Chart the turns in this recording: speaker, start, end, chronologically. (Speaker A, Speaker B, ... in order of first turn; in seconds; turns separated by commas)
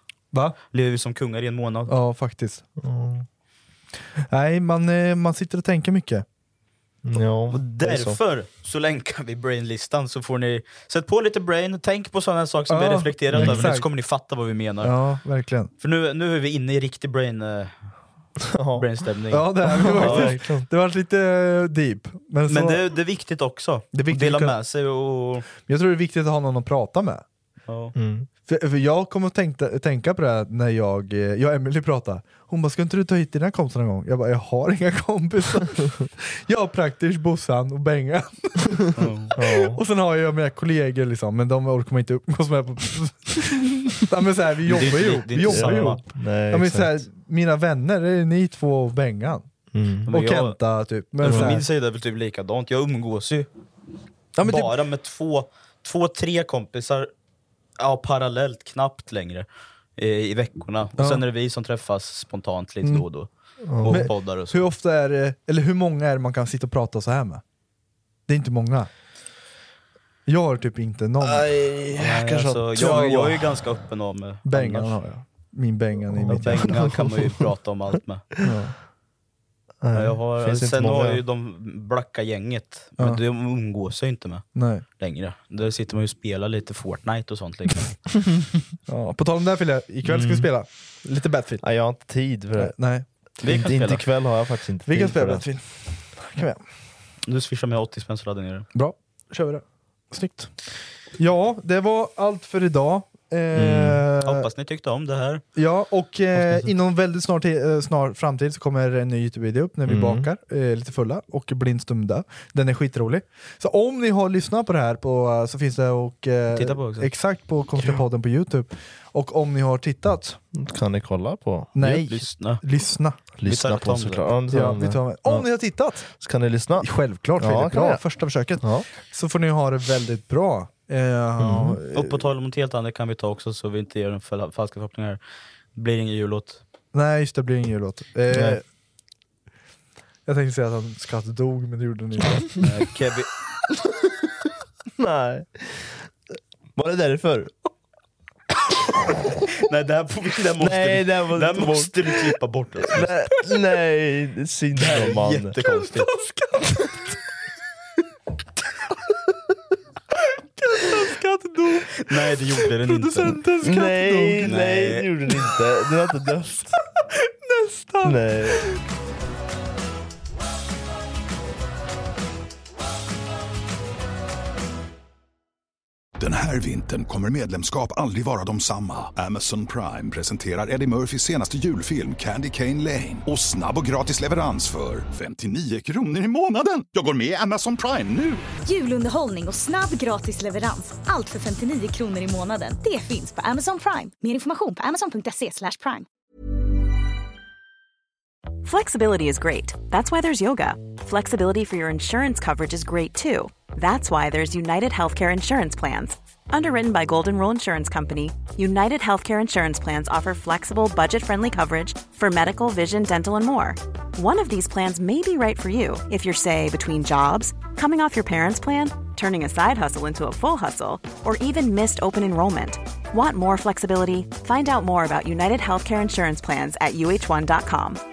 Speaker A: 0.7-1.9, Speaker B: 1.9-2.6, Speaker C: 2.8-3.3, Speaker B: 4.2-6.2, Speaker C: 7.0-8.2, Speaker A: 7.5-14.9, Speaker B: 12.7-14.0, Speaker C: 13.3-13.7, Speaker B: 14.8-15.7, Speaker A: 15.8-17.8, Speaker C: 18.5-18.9, Speaker A: 18.7-20.3, Speaker B: 19.3-22.8, Speaker C: 19.8-20.7, Speaker A: 22.5-25.4, Speaker B: 23.9-24.6, Speaker B: 25.6-27.2, Speaker A: 27.7-27.9, Speaker C: 27.9-28.3, Speaker B: 28.4-38.8, Speaker A: 39.0-39.3, Speaker C: 39.3-39.8, Speaker B: 39.3-51.6, Speaker A: 44.7-46.0, Speaker C: 45.4-47.0, Speaker C: 49.7-50.1, Speaker A: 50.1-50.6, Speaker A: 51.1-53.5, Speaker C: 51.2-51.6, Speaker B: 54.3-54.7, Speaker A: 54.4-57.1, Speaker A: 57.8-64.6, Speaker B: 61.0-61.2, Speaker C: 63.7-64.1, Speaker B: 63.8-67.4, Speaker B: 68.3-68.9, Speaker B: 70.2-71.5, Speaker C: 71.2-73.1, Speaker A: 71.9-75.0, Speaker B: 72.7-73.4, Speaker B: 74.4-76.9, Speaker C: 76.1-77.5, Speaker A: 76.3-78.2, Speaker B: 78.4-78.7, Speaker C: 79.8-81.2, Speaker A: 79.9-88.1, Speaker B: 84.5-84.8, Speaker B: 88.9-92.0, Speaker C: 90.0-90.5, Speaker C: 91.6-92.8, Speaker B: 92.5-93.1, Speaker C: 93.3-95.4, Speaker A: 93.4-94.1, Speaker B: 94.8-96.6, Speaker A: 97.2-98.7, Speaker B: 98.7-100.6, Speaker B: 101.1-104.5, Speaker C: 103.5-104.0, Speaker A: 104.2-105.4, Speaker B: 105.5-120.4, Speaker A: 106.3-106.7, Speaker C: 109.9-110.2, Speaker A: 116.5-117.1, Speaker C: 120.5-122.0, Speaker B: 121.7-123.2, Speaker A: 122.0-122.6, Speaker C: 123.4-128.0, Speaker A: 123.4-124.3, Speaker B: 124.5-126.2, Speaker B: 126.8-132.2, Speaker C: 128.6-128.9, Speaker C: 131.4-131.8, Speaker A: 131.9-135.2, Speaker A: 135.7-136.6, Speaker B: 136.9-138.6, Speaker C: 138.3-138.6, Speaker B: 140.2-142.6, Speaker A: 142.6-143.3, Speaker C: 145.0-146.1, Speaker C: 146.8-147.5, Speaker A: 149.5-153.1, Speaker C: 150.6-152.3, Speaker C: 152.9-155.5, Speaker A: 154.8-156.1, Speaker B: 155.6-157.2, Speaker B: 160.6-164.6, Speaker A: 162.0-163.4, Speaker C: 163.6-166.7, Speaker A: 164.4-165.1, Speaker B: 167.4-168.8, Speaker C: 168.0-168.6, Speaker D: 176.2-188.4, Speaker E: 188.7-196.1, Speaker F: 198.6-228.0